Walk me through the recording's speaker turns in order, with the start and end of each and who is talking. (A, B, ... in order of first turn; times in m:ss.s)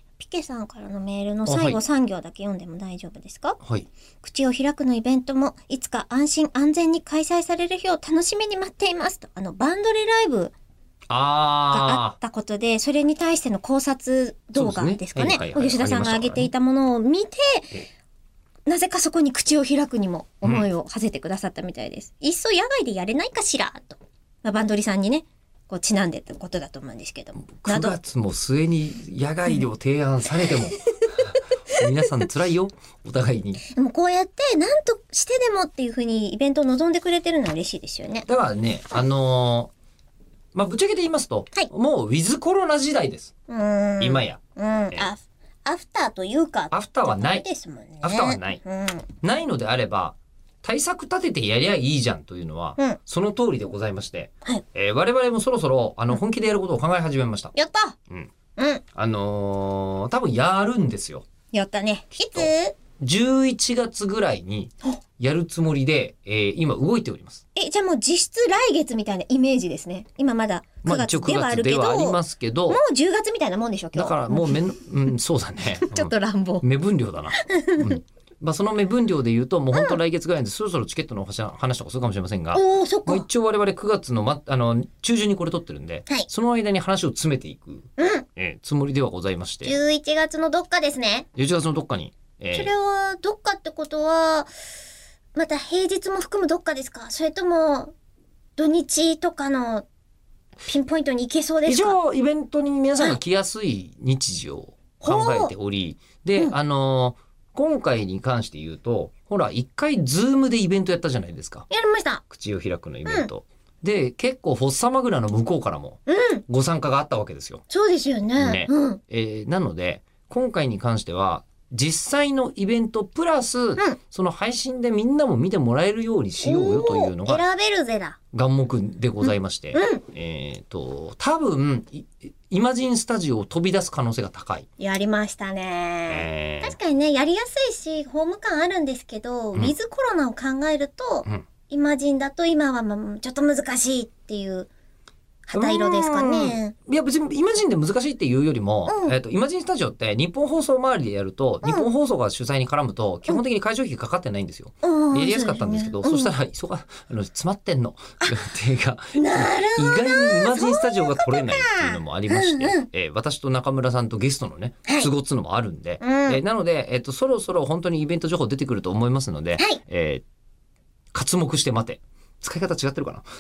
0:00.2-0:03.6 A
0:01.5-0:01.8 B
0:03.6-0:03.9 B
0:04.2-0:10.5 A
0:11.1-0:12.2 B
0:11.7-0:17.8 A
0:14.6-0:16.5 B
0:18.7-0:28.0 A
0:27.5-0:30.8 B
0:31.7-0:33.6 B
0:33.7-0:38.3 A
0:38.3-0:39.7 B
0:40.5-0:43.3 B
0:43.5-0:49.1 A
0:44.0-0:44.4 B
0:46.7-0:47.5 B
0:48.0-0:48.6 B
0:49.2-0:57.5 B
0:57.5-0:58.0 A
0:58.6-0:58.8 A
0:58.9-1:01.2 B
1:01.5-1:02.8 A
1:02.2-1:07.4 B
1:07.6-1:14.6 A
1:10.8-1:12.8 B
1:14.0-1:29.8 B
1:15.8-1:16.6 A
1:17.4-1:18.0 A
1:22.5-1:23.3 A
1:28.0-1:28.3 A
1:29.6-1:31.3 A
1:31.4-1:32.7 B
1:32.5-1:34.5 A
1:35.4-1:37.9 A
1:38.6-1:39.9 A
1:40.7-1:42.0 A
1:41.7-1:51.7 B
1:45.0-1:45.5 A
1:51.7-1:52.2 A
1:52.3-1:57.6 B
1:56.1-1:56.4 A
1:57.7-1:59.0 A
1:58.4-2:07.4 B
2:06.4-2:08.2 A
2:08.3-2:14.7 B
2:09.2-2:10.0 A
2:14.8-2:24.7 A
2:16.1-2:16.8 B
2:25.5-2:26.7 A
2:25.5-2:50.2 B
2:28.9-2:29.2 A
2:31.6-2:31.9 A
2:34.8-2:36.3 A
2:39.2-2:42.9 A
2:46.0-2:46.4 A
2:51.1-2:53.2 B